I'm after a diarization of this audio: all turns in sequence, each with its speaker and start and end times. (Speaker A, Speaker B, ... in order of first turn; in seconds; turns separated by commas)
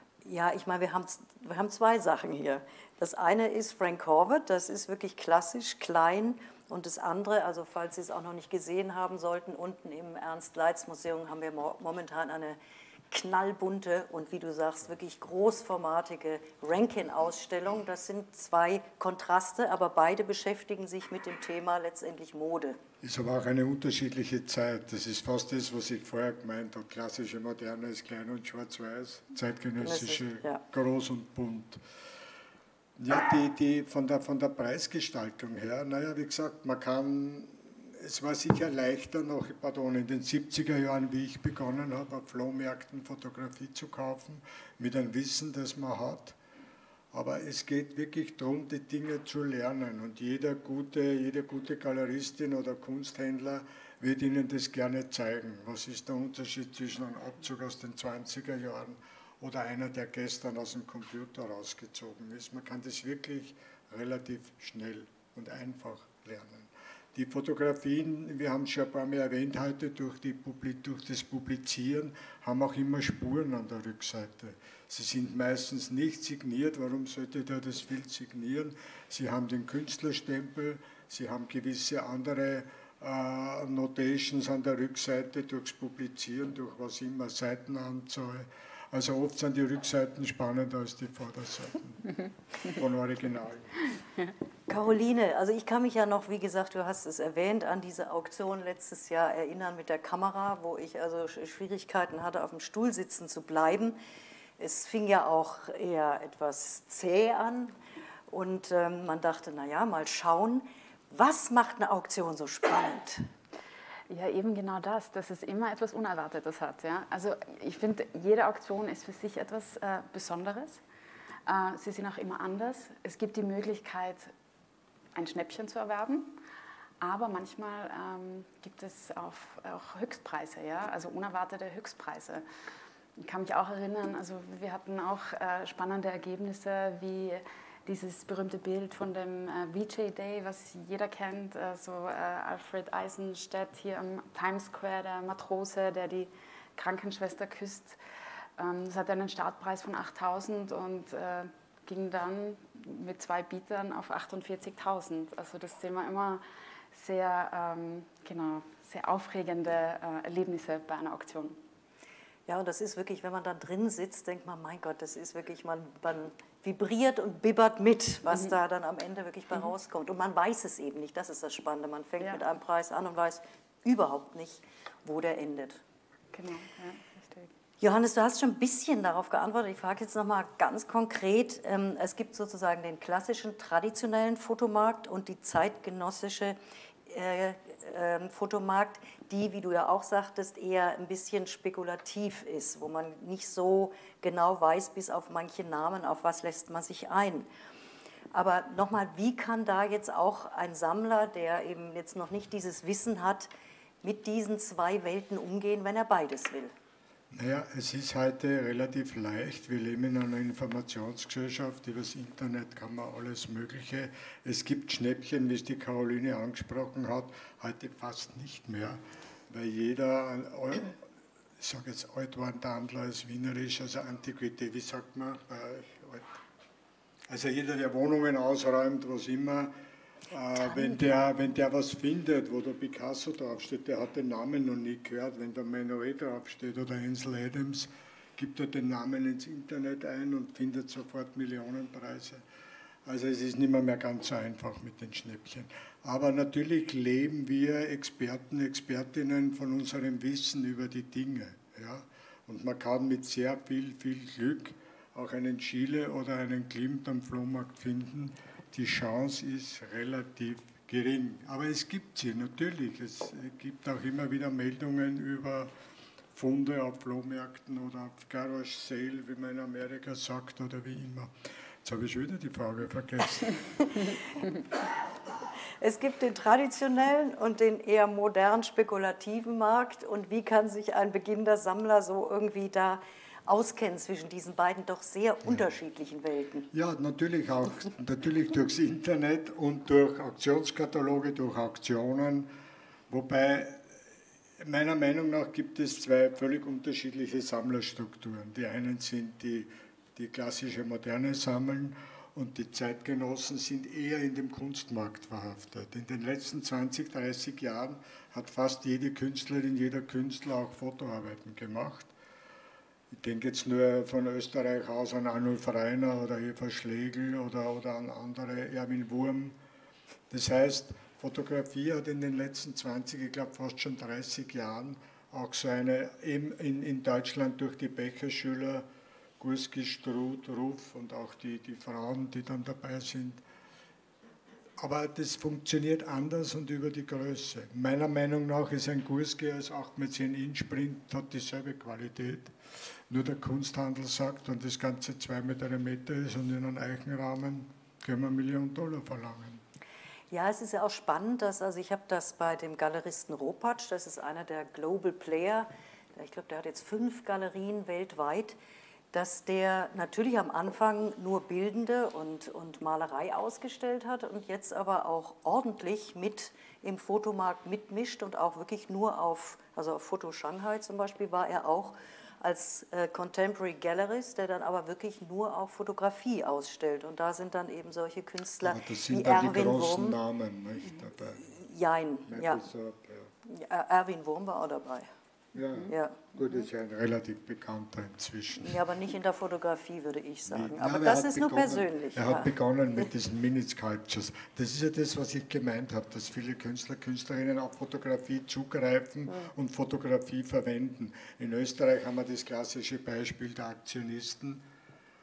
Speaker A: 0.2-12.6, Speaker A: 13.1-22.8, Speaker B: 23.0-31.8, Speaker A: 29.8-30.6, Speaker B: 33.0-46.4, Speaker B: 47.1-93.8, Speaker A: 94.7-104.0, Speaker A: 104.6-107.8, Speaker A: 108.3-113.3, Speaker C: 114.1-120.8, Speaker C: 121.5-124.3, Speaker C: 125.2-126.4, Speaker C: 127.0-132.4, Speaker C: 133.2-148.0, Speaker C: 148.6-161.6, Speaker A: 162.5-175.8, Speaker C: 168.3-168.6, Speaker C: 176.3-177.5, Speaker A: 177.8-197.5, Speaker A: 198.3-203.5, Speaker A: 204.0-206.7, Speaker B: 207.3-221.0, Speaker B: 221.6-226.4, Speaker B: 227.3-229.7, Speaker B: 230.3-242.4, Speaker A: 230.7-231.3, Speaker B: 243.1-265.7, Speaker B: 266.3-271.3, Speaker B: 271.8-273.6, Speaker A: 275.8-286.7, Speaker B: 286.7-292.5, Speaker B: 293.1-293.9, Speaker B: 294.6-312.1, Speaker B: 313.1-319.6, Speaker B: 320.3-328.9, Speaker B: 329.4-333.4, Speaker B: 334.8-342.5, Speaker B: 343.1-349.6, Speaker A: 350.3-358.6, Speaker A: 359.1-380.2, Speaker B: 378.6-381.6, Speaker A: 381.5-382.6, Speaker B: 382.3-383.3, Speaker A: 383.5-385.1, Speaker B: 385.5-388.8, Speaker A: 385.9-386.2, Speaker A: 388.6-392.5, Speaker B: 390.5-404.6